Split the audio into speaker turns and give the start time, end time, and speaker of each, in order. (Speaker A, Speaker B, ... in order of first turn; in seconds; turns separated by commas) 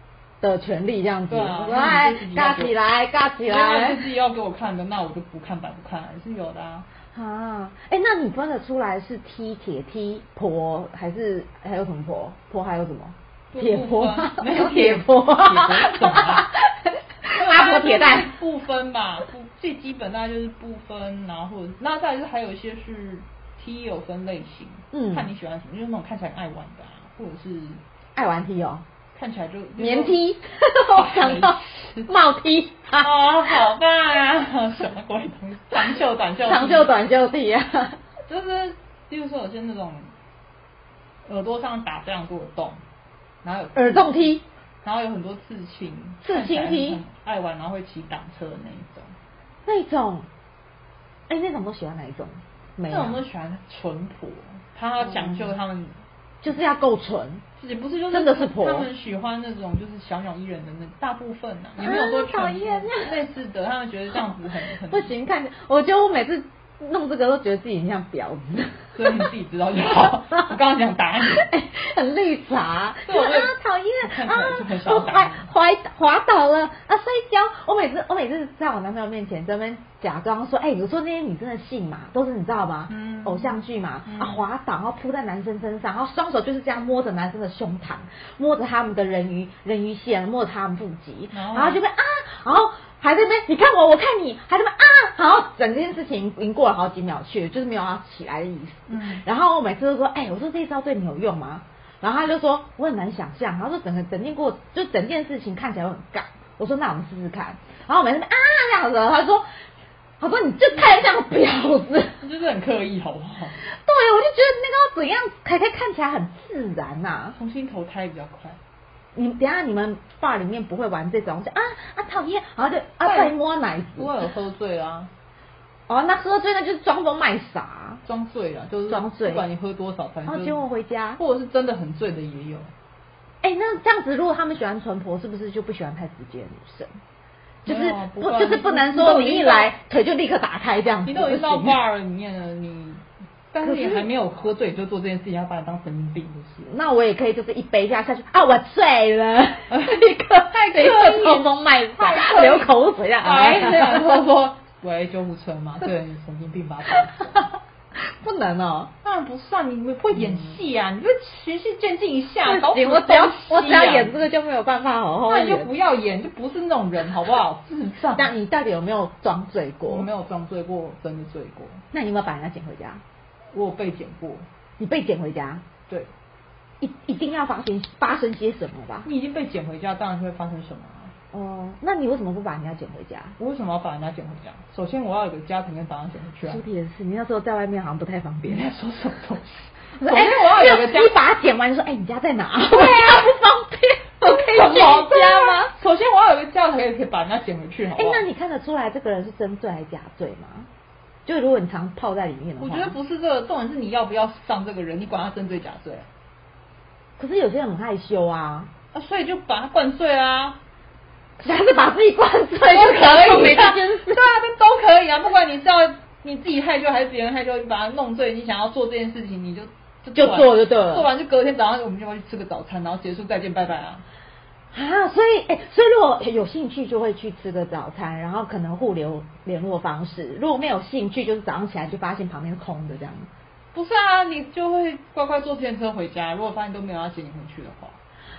Speaker A: 0.4-4.1, Speaker B: 1.3-2.8, Speaker B: 3.5-6.9, Speaker A: 7.1-18.3, Speaker B: 13.5-16.5, Speaker B: 17.3-27.8, Speaker A: 24.9-25.3, Speaker A: 28.1-28.8, Speaker B: 29.1-30.2, Speaker A: 29.8-33.6, Speaker B: 30.9-32.1, Speaker B: 33.0-36.9, Speaker A: 36.4-38.0, Speaker B: 38.3-40.1, Speaker B: 41.2-42.8, Speaker B: 43.4-49.1, Speaker A: 43.7-44.4, Speaker A: 46.2-47.0, Speaker A: 49.6-50.3, Speaker A: 51.3-53.2, Speaker B: 52.9-56.0, Speaker A: 55.0-55.5, Speaker A: 56.4-57.4, Speaker B: 57.6-65.1, Speaker A: 58.1-58.9, Speaker A: 61.8-63.2, Speaker A: 64.7-69.3, Speaker B: 69.0-71.5, Speaker A: 71.2-109.4, Speaker B: 73.0-75.5, Speaker B: 82.9-84.4, Speaker B: 91.3-91.8, Speaker B: 98.9-99.2, Speaker A: 110.2-112.2, Speaker B: 112.2-113.6, Speaker A: 113.6-117.4, Speaker B: 117.3-118.6, Speaker A: 119.1-124.1, Speaker B: 123.0-123.3, Speaker B: 124.0-125.1, Speaker A: 125.9-128.0, Speaker B: 128.0-130.6, Speaker A: 128.9-129.4, Speaker A: 130.2-131.2, Speaker B: 131.2-132.7, Speaker A: 133.4-136.9, Speaker A: 137.6-141.8, Speaker B: 137.7-139.7, Speaker B: 141.1-146.7, Speaker A: 143.6-144.1, Speaker A: 146.7-154.2, Speaker B: 149.7-157.3, Speaker A: 157.9-158.9, Speaker B: 159.0-164.2, Speaker A: 160.1-160.5, Speaker A: 162.4-165.7, Speaker B: 165.3-168.3, Speaker A: 168.2-170.1, Speaker B: 169.8-171.8, Speaker A: 171.9-173.0, Speaker B: 173.5-174.5, Speaker A: 174.8-175.6, Speaker A: 176.8-179.1, Speaker B: 179.0-181.1, Speaker A: 181.3-183.3, Speaker B: 183.4-186.6, Speaker A: 186.5-188.7, Speaker B: 188.4-191.2, Speaker A: 190.0-195.7, Speaker B: 192.6-193.3, Speaker B: 194.2-198.2, Speaker A: 197.9-200.7, Speaker A: 201.2-202.9, Speaker B: 202.6-206.1, Speaker A: 207.2-208.7, Speaker B: 208.9-210.6, Speaker A: 211.4-214.2, Speaker B: 212.6-224.0, Speaker A: 220.1-221.1, Speaker A: 224.7-233.3, Speaker B: 233.7-238.0